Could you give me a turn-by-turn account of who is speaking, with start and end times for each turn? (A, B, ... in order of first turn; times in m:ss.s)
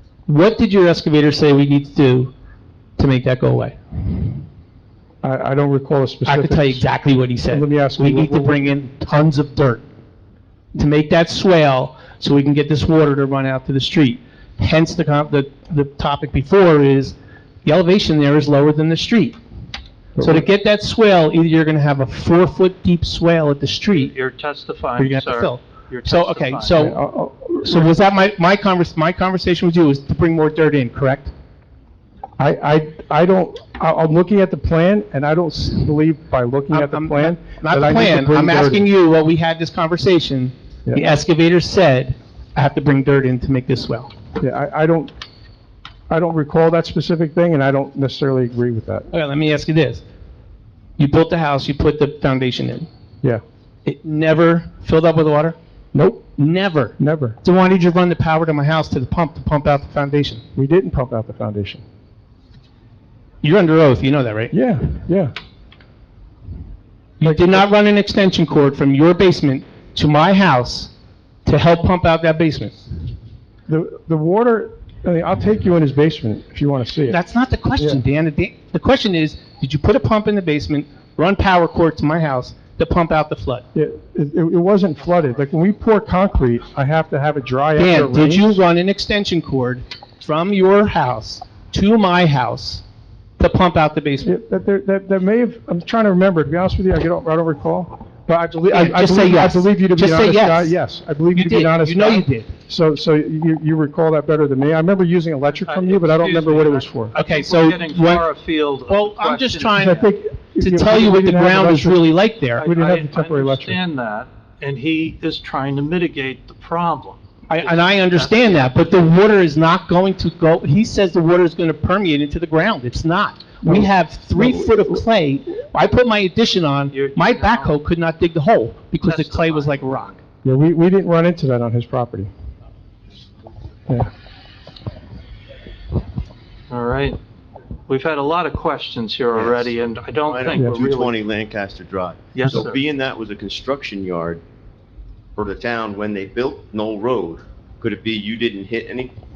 0:00.3-0:02.3 A
0:03.0-0:04.4 A
0:05.2-0:06.9 B
0:06.3-0:09.8 A
0:07.5-0:08.7 B
0:10.8-0:19.4 A
0:20.2-0:20.5 B
0:20.2-0:24.1 A
0:23.9-0:26.8 C
0:25.0-0:27.0 A
0:26.7-0:28.0 B
0:27.6-0:31.3 A
0:32.4-0:38.9 B
0:36.7-0:44.1 A
0:44.4-0:45.1 B
0:46.1-0:49.1 B
0:49.1-0:50.0 A
0:51.0-0:52.9 A
0:53.8-0:55.6 A
0:55.9-0:56.3 B
0:56.4-1:00.4 A
0:57.0-0:57.4 B
1:00.6-1:01.8 B
1:03.4-1:04.5 A
1:04.5-1:05.3 B
1:07.2-1:10.9 A
1:07.2-1:07.6 B
1:11.4-1:12.8 A
1:13.7-1:17.2 B
1:17.1-1:23.6 A
1:17.8-1:18.0 B
1:23.7-1:28.6 B
1:27.8-1:32.8 A
1:33.4-1:34.3 A
1:34.2-1:47.2 B
1:38.7-1:40.8 A
1:41.3-1:42.5 A
1:45.5-1:49.8 C
1:47.2-1:48.3 A
1:48.8-1:52.6 A
1:49.8-1:52.0 B
1:52.6-1:53.8 B
1:52.6-1:58.7 C
1:57.5-2:10.2 A
2:03.6-2:05.0 B
2:06.9-2:07.8 C
2:09.0-2:09.8 C
2:10.4-2:12.3 B
2:16.7-2:17.2 C
2:17.9-2:21.2 C
2:19.4-2:19.8 D
2:20.3-2:24.4 D
2:22.3-2:22.8 C
2:25.4-2:29.1 D